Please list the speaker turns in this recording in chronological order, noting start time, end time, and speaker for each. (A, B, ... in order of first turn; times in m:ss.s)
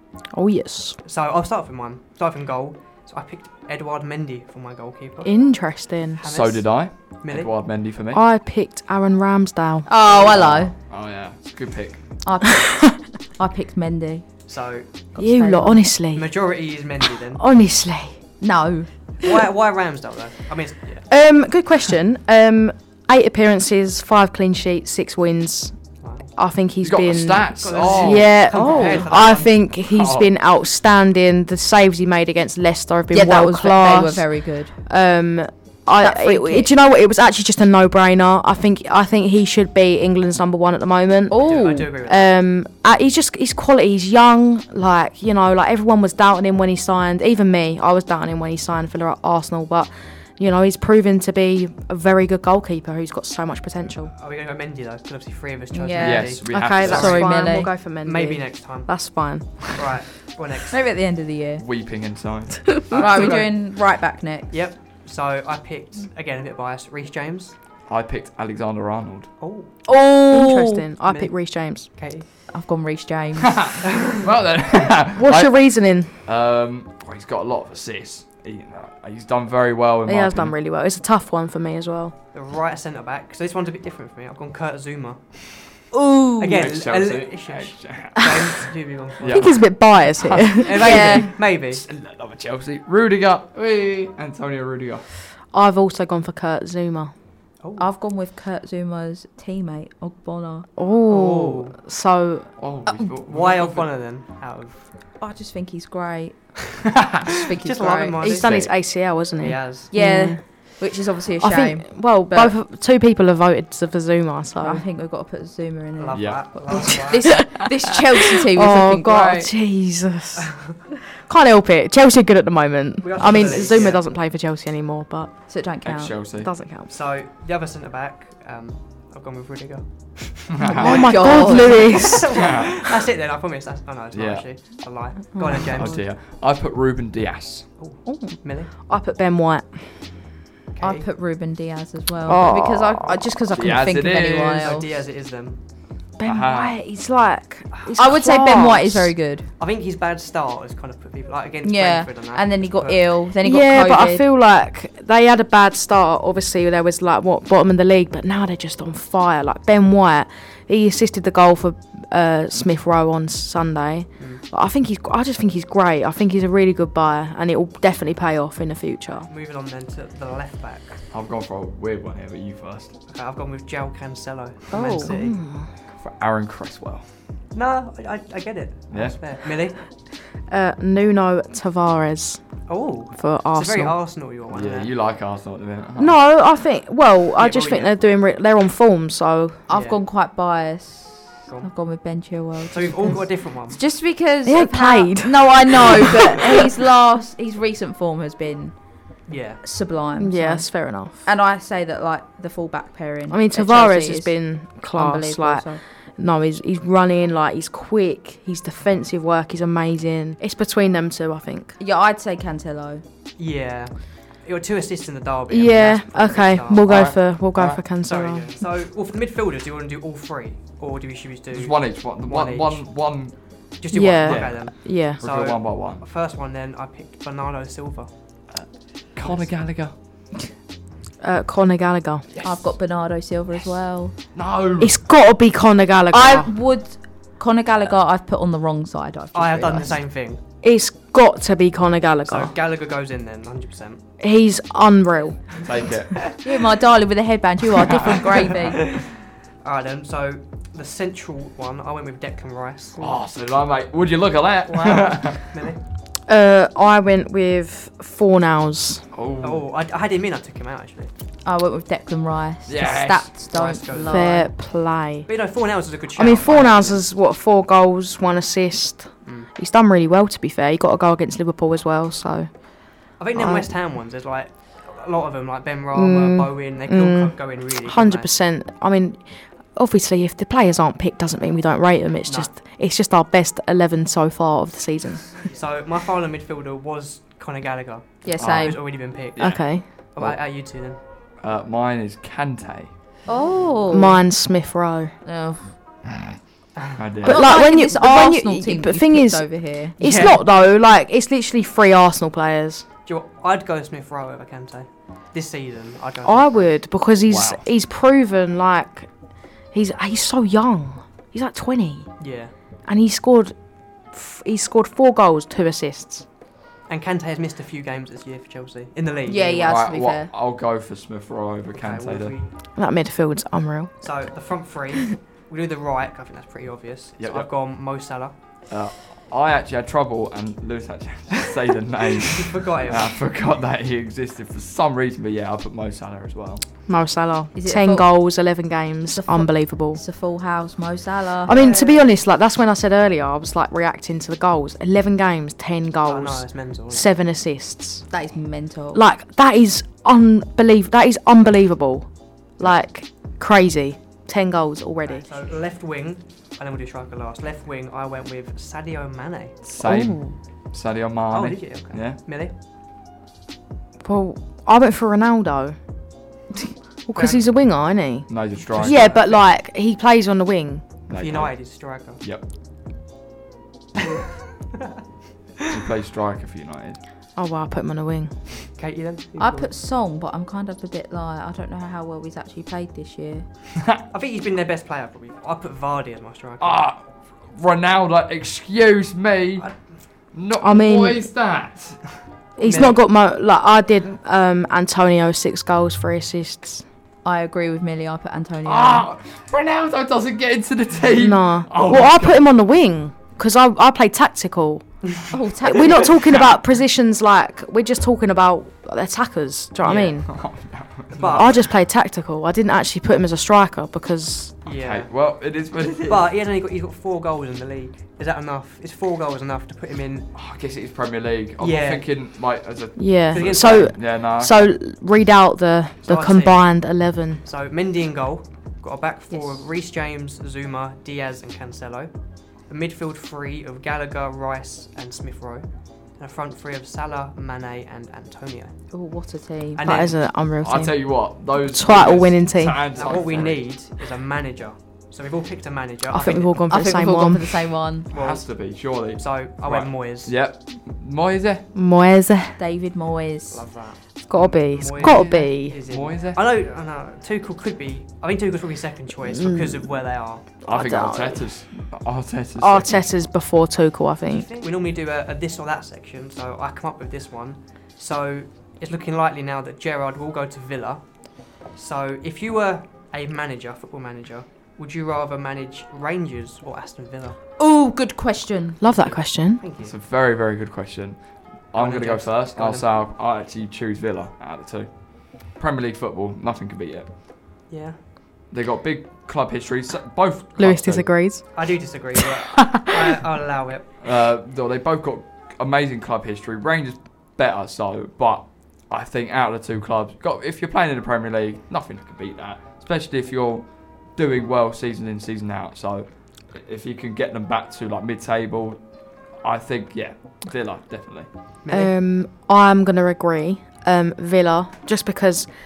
0:00.3-0:01.0 A
0:01.0-0:05.4 B
0:05.2-0:06.2 A
0:06.1-0:07.5 B
0:06.2-0:08.2 C
0:08.1-0:09.9 A
0:09.9-0:10.8 D
0:10.1-0:12.0 C
0:12.2-0:14.4 D
0:14.5-0:14.9 B
0:15.1-0:15.9 D
0:15.2-0:16.3 A
0:16.1-0:17.4 B
0:17.4-0:18.2 A
0:18.4-0:18.9 D
0:19.2-0:21.1 B
0:21.1-0:25.8 A
0:26.0-0:26.3 B
0:26.3-0:54.1 A
0:26.8-0:28.8 C
0:27.6-0:29.6 B
0:28.6-0:29.0 D
0:29.9-0:30.3 C
0:33.1-0:34.8 D
0:36.0-0:36.7 D
0:41.3-0:41.9 D
0:41.4-0:42.3 B
0:54.2-0:57.5 B
0:55.7-0:57.7 D
0:56.0-0:57.3 C
0:56.5-0:59.8 A
0:58.0-0:59.0 B
0:59.6-1:00.8 B
1:00.7-1:01.6 D
1:01.6-1:03.3 C
1:02.9-1:04.5 D
1:02.9-1:03.6 B
1:04.5-1:07.6 B
1:07.9-1:09.3 C
1:09.4-1:09.8 B
1:09.9-1:10.9 D
1:10.3-1:11.9 A
1:11.1-1:11.3 B
1:11.9-1:12.3 B
1:12.5-1:13.6 D
1:13.4-1:20.5 C
1:15.2-1:16.1 A
1:20.1-1:22.1 A
1:22.3-1:25.4 B
1:25.9-1:26.7 D
1:26.4-1:29.6 B
1:26.5-1:28.7 C
1:29.2-1:35.0 C
1:29.3-1:31.2 A
1:30.4-1:31.8 B
1:30.7-1:31.3 D
1:35.5-1:37.1 A
1:37.6-1:37.9 B
1:37.8-1:40.7 D
1:40.8-1:42.5 A
1:41.1-1:41.8 B
1:42.6-1:43.9 C
1:43.3-1:44.9 B
1:45.2-1:48.4 D
1:47.6-1:48.5 B
1:48.2-1:50.4 A
1:48.4-1:48.7 C
1:49.4-1:49.9 B
1:49.9-1:52.6 D
1:51.4-1:54.8 A
1:54.6-1:59.5 D
1:56.0-1:57.5 B
1:56.1-1:56.5 C
1:57.2-1:57.7 A
1:58.3-2:05.5 A
2:03.0-2:04.1 B
2:05.5-2:06.2 D
2:05.8-2:06.5 C
2:06.4-2:06.9 A
2:06.9-2:10.4 B
2:10.5-2:11.1 C
2:10.6-2:12.6 A
2:10.8-2:12.1 D
2:11.2-2:16.0 B
2:12.4-2:12.8 C
2:14.1-2:14.4 C
2:15.3-2:16.0 A
2:15.6-2:17.7 C
2:17.8-2:18.7 B
2:18.0-2:19.8 A
2:20.7-2:21.1 B
2:20.8-2:24.9 D
2:22.3-2:23.2 A
2:23.5-2:24.8 C
2:24.6-2:25.6 B
2:26.2-2:29.1 A
2:26.2-2:26.8 C
2:28.0-2:29.5 D
2:29.6-2:33.1 B
2:31.6-2:34.2 D
2:33.4-2:49.3 A
2:44.2-2:44.4 B
2:49.3-2:51.0 B
2:51.1-2:52.9 C
2:53.1-2:55.4 B
2:54.7-2:55.7 A
2:56.0-2:57.1 C
2:57.5-2:59.8 B
2:58.9-2:59.2 C
3:00.5-3:02.6 A
3:02.7-3:04.9 B
3:03.2-3:04.0 A
3:04.5-3:06.2 C
3:06.0-3:09.6 A
3:07.4-3:08.0 B
3:09.7-3:18.8 D
3:09.7-3:10.0 B
3:12.7-3:13.8 B
3:14.4-3:16.6 A
3:19.3-3:19.6 B
3:19.6-3:20.7 D
3:20.2-3:21.2 A
3:21.2-3:24.3 D
3:23.3-3:31.8 A
3:24.9-3:25.8 D
3:31.8-3:33.0 D
3:33.4-3:37.1 B
3:35.5-3:38.5 A
3:36.9-3:37.8 C
3:38.0-3:43.0 B
3:41.5-3:46.0 C
3:43.8-3:48.1 B
3:43.9-3:45.2 A
3:48.5-3:49.9 C
3:49.2-3:49.5 B
3:51.2-3:52.3 A
3:52.3-3:52.8 C
3:52.4-3:54.2 D
3:54.3-3:55.0 C
3:54.8-3:56.5 A
3:56.1-4:00.0 D
3:59.3-4:00.4 B
4:00.6-4:02.5 A
4:02.2-4:04.0 B
4:04.2-4:05.6 A
4:05.6-4:06.3 C
4:06.4-4:08.8 D
4:07.8-4:08.3 C
4:09.6-4:13.2 B
4:13.0-4:15.4 C
4:14.7-4:15.8 B
4:16.3-4:19.1 A
4:19.1-4:19.6 C
4:19.4-4:21.1 B
4:21.4-4:24.5 D
4:22.7-4:23.3 C
4:23.5-4:24.4 B
4:24.1-4:25.3 A
4:25.3-4:27.0 B
4:26.2-4:32.5 A
4:29.2-4:29.5 B
4:33.2-4:38.3 B
4:33.4-4:33.7 A
4:35.9-4:45.5 A
4:42.2-4:42.5 B
4:45.4-4:51.0 B
4:48.2-4:48.8 D
4:48.4-4:48.8 C
4:49.3-4:50.4 C
4:49.4-4:49.9 A
4:51.4-4:52.9 C
4:53.3-4:54.2 D
4:53.9-4:55.1 A
4:55.2-4:55.7 D
4:57.0-4:57.5 C
4:57.2-5:02.8 A
4:57.2-5:00.0 D
5:00.0-5:00.5 B
5:03.1-5:06.7 B
5:06.2-5:09.1 A
5:07.3-5:07.6 C
5:09.7-5:12.2 A
5:12.2-5:12.5 B
5:12.9-5:13.6 A
5:14.1-5:16.3 A
5:16.9-5:19.7 B
5:19.3-5:20.3 D
5:19.6-5:22.4 C
5:21.7-5:22.5 B
5:22.8-5:23.9 A
5:24.0-5:28.3 B
5:27.2-5:27.5 C
5:28.7-5:36.6 C
5:32.3-5:33.2 B
5:36.9-5:40.0 A
5:37.6-5:38.1 D
5:39.1-5:41.6 D
5:41.5-5:48.0 A
5:41.5-5:42.2 B
5:46.0-5:47.1 B
5:48.1-5:49.0 D
5:48.9-5:55.3 A
5:55.1-5:59.6 B
5:59.6-6:02.2 C
5:59.8-6:00.4 A
6:01.3-6:02.5 B
6:04.0-6:05.8 A
6:07.1-6:10.8 A
6:07.2-6:07.4 B
6:08.3-6:09.2 C
6:08.8-6:09.4 B
6:11.1-6:12.4 C
6:11.2-6:12.2 B
6:15.7-6:17.0 C
6:17.4-6:18.3 A
6:18.8-6:19.7 B
6:19.4-6:23.4 D
6:24.1-6:26.8 B
6:26.6-6:29.7 C
6:29.6-6:30.0 B
6:30.3-6:32.2 C
6:30.6-6:31.2 A
6:32.6-6:36.8 A
6:32.6-6:33.0 B
6:37.2-6:39.1 D
6:38.6-6:42.5 C
6:41.1-6:44.9 A
6:45.3-6:46.1 D
6:45.6-6:50.3 A
6:49.8-6:51.7 C
6:51.1-6:51.6 B
6:51.3-6:54.6 A
6:54.6-6:55.1 B
6:54.8-6:56.3 C
6:56.0-7:00.3 B
7:00.3-7:04.7 C
7:01.6-7:02.1 B
7:03.0-7:07.4 A
7:03.3-7:03.9 B
7:06.1-7:06.7 B
7:07.4-7:18.8 B
7:18.9-7:19.8 D
7:19.8-7:20.2 B
7:19.8-7:23.0 A
7:20.6-7:23.7 C
7:22.9-7:26.6 B
7:26.1-7:27.7 A
7:26.7-7:28.1 D
7:28.1-7:30.3 B
7:28.1-7:31.7 C
7:31.7-7:32.6 A
7:32.6-7:33.6 D
7:33.5-7:40.5 B
7:34.3-7:35.8 A
7:35.0-7:36.4 C
7:39.3-7:39.9 A
7:40.6-7:41.5 A
7:40.7-7:43.1 C
7:42.6-7:44.5 A
7:44.3-7:57.4 B
7:57.6-7:58.8 D
7:58.8-7:59.6 A
7:58.9-8:00.0 B
7:59.8-8:07.1 C
8:01.7-8:03.0 B
8:07.7-8:08.0 B
8:08.5-8:11.1 C
8:10.6-8:11.5 A
8:11.5-8:13.9 B
8:12.6-8:12.9 A
8:14.0-8:28.8 C
8:29.4-8:31.3 C
8:31.6-8:31.9 B
8:31.7-8:35.5 A